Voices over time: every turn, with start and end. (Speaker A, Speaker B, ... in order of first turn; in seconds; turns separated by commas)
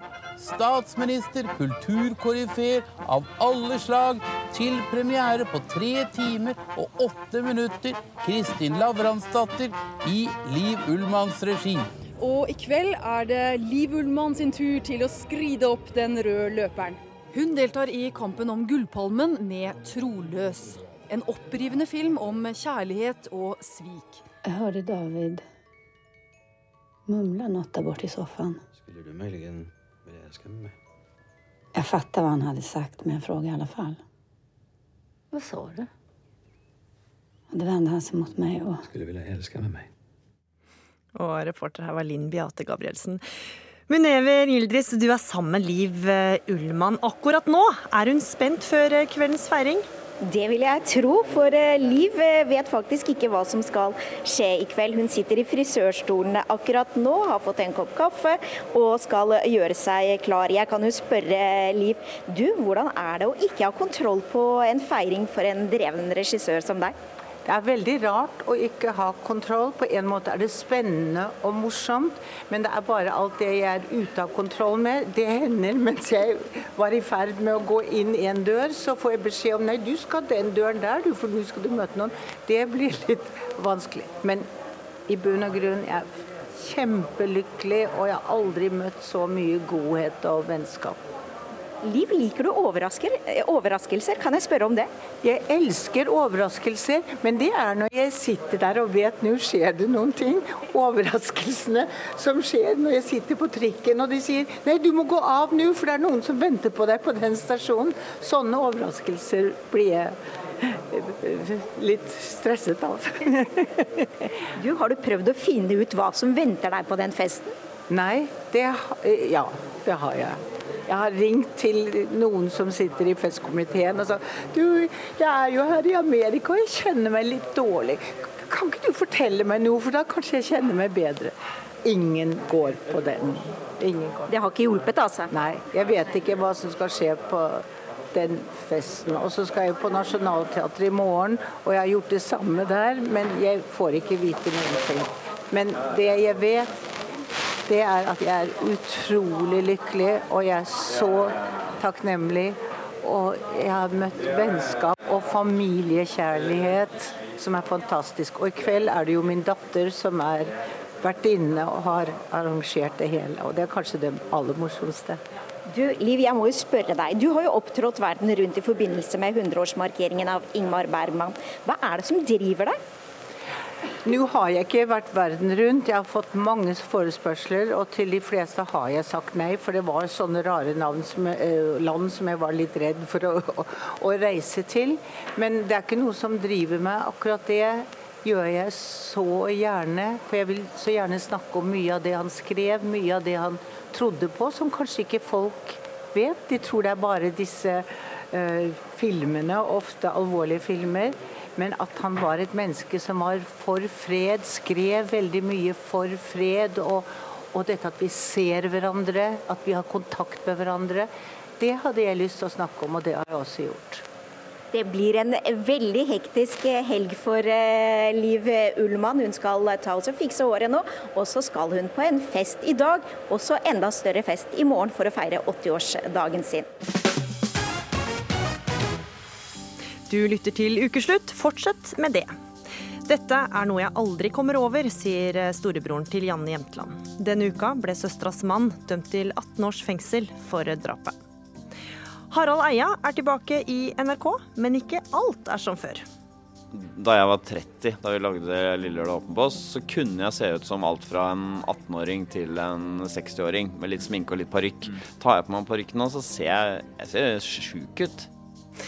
Speaker A: 0.4-11.9, Speaker B: 12.2-24.2, Speaker C: 24.4-25.4, Speaker C: 27.1-28.6, Speaker D: 28.9-30.7, Speaker C: 31.8-34.0, Speaker C: 35.3-35.8, Speaker C: 37.5-38.8, Speaker D: 38.9-39.8, Speaker E: 41.1-43.2, Speaker E: 43.9-49.8, Speaker F: 50.2-66.9, Speaker G: 67.5-84.5, Speaker G: 85.1-91.0, Speaker F: 91.8-94.9, Speaker G: 95.2-114.1, Speaker F: 114.6-117.5, Speaker G: 117.9-131.3, Speaker G: 131.8-134.3, Speaker F: 134.3-135.3, Speaker G: 135.3-146.7, Speaker G: 147.7-165.2, Speaker F: 165.7-172.8, Speaker G: 174.0-214.0, Speaker F: 214.7-226.7, Speaker E: 230.1-232.3, Speaker E: 233.1-241.2, Speaker E: 242.3-246.1, Speaker H: 246.7-258.3